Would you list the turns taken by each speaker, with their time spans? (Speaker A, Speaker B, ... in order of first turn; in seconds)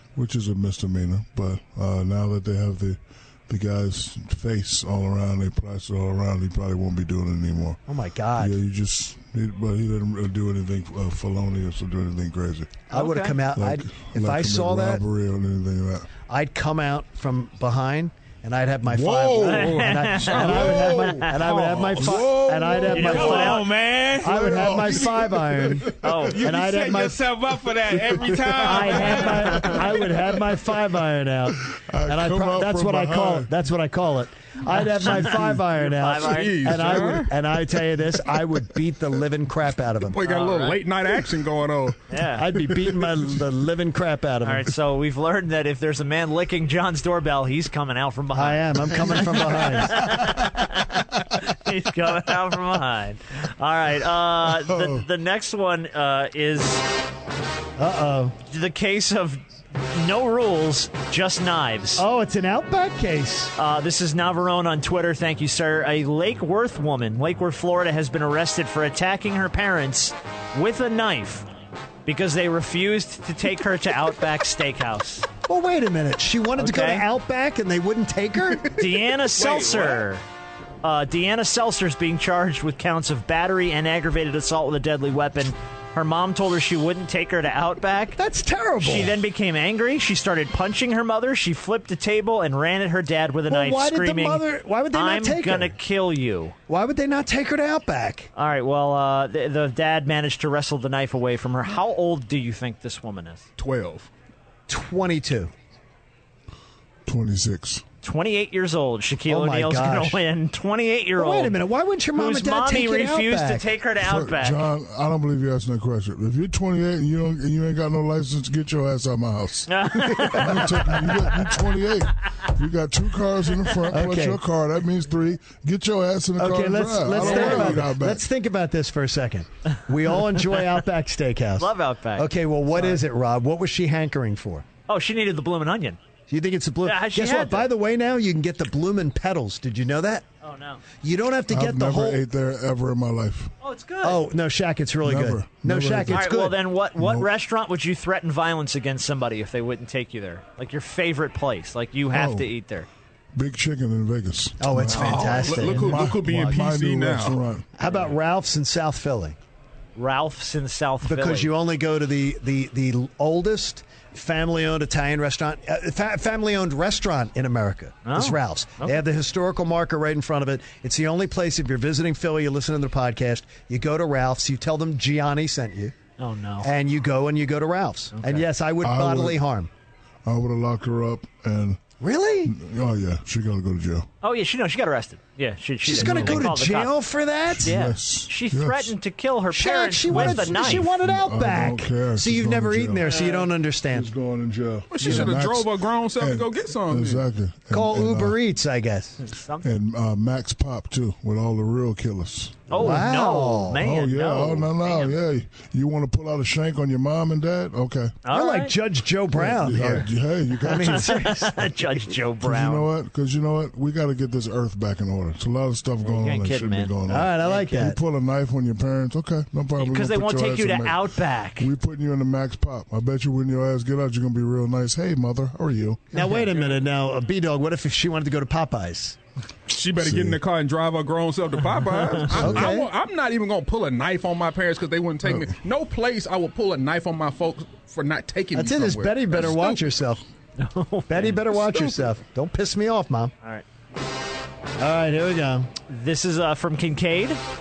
Speaker A: 0.1-7.8, 8.4-12.8, 13.5-16.1, 18.9-19.9, 21.6-22.8, 24.2-25.7, 31.8-33.5, 54.4-55.1, 107.0-107.8, 114.0-128.2, 141.5-143.5, 145.0-146.3, 147.0-147.3, 152.1-152.5, 153.3-157.7, 178.8-179.4, 180.2-181.8, 182.4-184.1, 185.9-186.5, 187.5-188.9, 190.1-193.2, 193.9-198.4, 199.6-203.1, 203.8-208.2, 209.3-211.1, 212.4-226.0, 230.0-230.4, 232.3-232.8, 235.2-235.5
Speaker B: 7.9-8.6, 12.9-15.0, 16.3-23.6, 24.2-25.9, 26.4-27.2, 28.4-40.2, 42.4-44.7, 48.3-50.3, 57.8-58.3, 62.0-63.5, 75.5-79.9, 88.2-89.2, 93.5-95.7, 96.7-98.3, 104.7-105.5, 109.3-110.2, 111.2-113.7, 120.3-120.5, 123.9-124.4, 126.4-134.6, 136.3-140.2, 141.0-142.2, 144.0-146.6, 154.6-156.0, 157.8-159.3, 161.0-175.9, 176.6-179.7, 182.0-182.5, 185.8-187.7, 189.5-194.1, 197.7-199.2, 202.7-203.8, 208.3-210.1, 210.6-211.9, 217.1-218.0, 226.1-229.2, 232.4-232.9, 238.5-240.2, 241.1-243.3, 244.8-245.7
Speaker C: 12.9-13.3, 19.4-21.3, 22.9-23.7, 26.0-26.4, 28.7-29.7, 35.0-35.3, 35.9-37.2, 40.2-40.8, 42.1-42.4, 44.4-56.8, 58.5-62.0, 63.6-71.5, 72.0-75.3, 76.6-77.0, 78.7-80.2, 80.8-88.2, 88.8-96.5, 98.3-103.4, 108.0-111.5, 112.2-114.6, 119.7-120.8, 127.1-127.8, 131.6-133.0, 134.9-136.0, 136.8-137.7, 140.4-140.8, 143.6-144.2, 146.1-152.9, 154.9-155.3, 159.9-161.5, 168.0-169.0, 176.2-176.7, 178.1-178.4, 184.2-186.9, 187.6-190.9, 199.2-199.7, 202.7-205.1, 208.2-208.7, 210.7-212.9, 216.0-216.9, 219.8-221.7, 240.6-241.5, 245.9-247.4
Speaker D: 20.1-23.2, 35.7-37.3, 40.1-42.0, 103.6-104.1, 154.9-157.4, 194.9-197.2, 229.7-239.8
Speaker E: 23.0-24.8, 26.3-30.2